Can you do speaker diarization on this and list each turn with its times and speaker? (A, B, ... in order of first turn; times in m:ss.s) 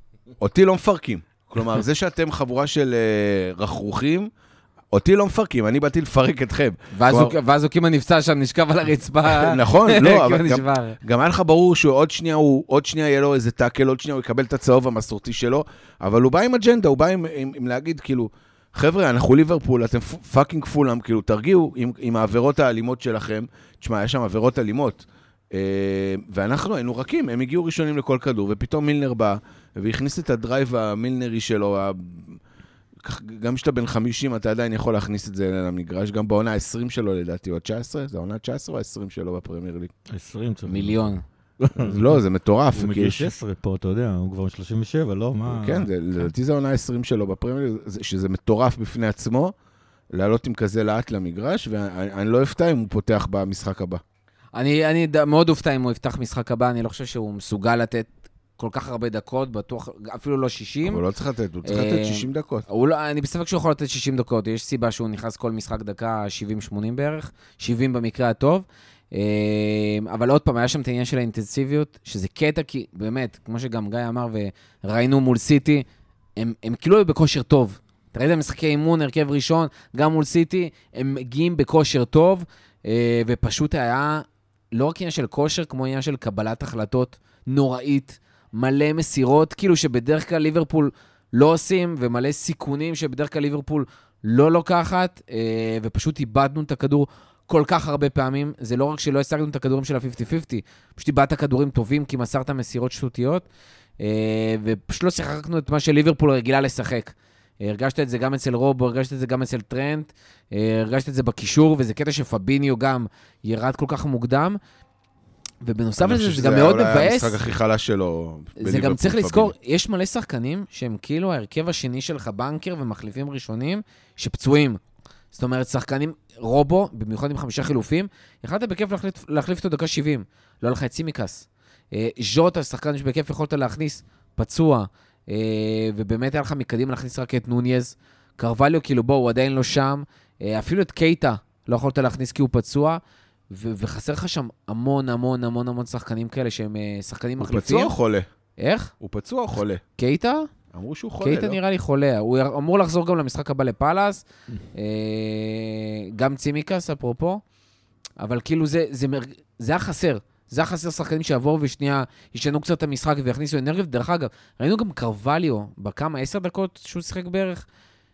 0:00.4-0:04.3 A
0:04.9-0:07.4 A
0:06.9-0:11.0 B
0:09.4-0:32.4 A
0:33.0-0:39.9 A
0:40.1-0:42.2 C
0:40.7-0:41.2 B
0:41.8-0:43.3 A
0:42.8-0:45.9 C
0:45.5-0:49.5 A
0:50.1-0:54.0 A
0:54.5-1:01.0 B
1:00.8-1:02.6 A
1:01.6-1:15.8 B
1:16.4-1:43.5 B
1:44.0-1:54.6 B
1:55.6-1:57.4 B
1:56.0-1:59.5 A
1:58.6-2:04.8 B
2:05.3-2:27.9 B
2:27.4-2:28.3 A
2:28.6-2:28.9 B
2:29.0-2:29.8 A
2:30.0-2:30.5 B
2:30.7-2:31.6 A
2:31.2-2:37.4 B
2:38.2-2:47.6 B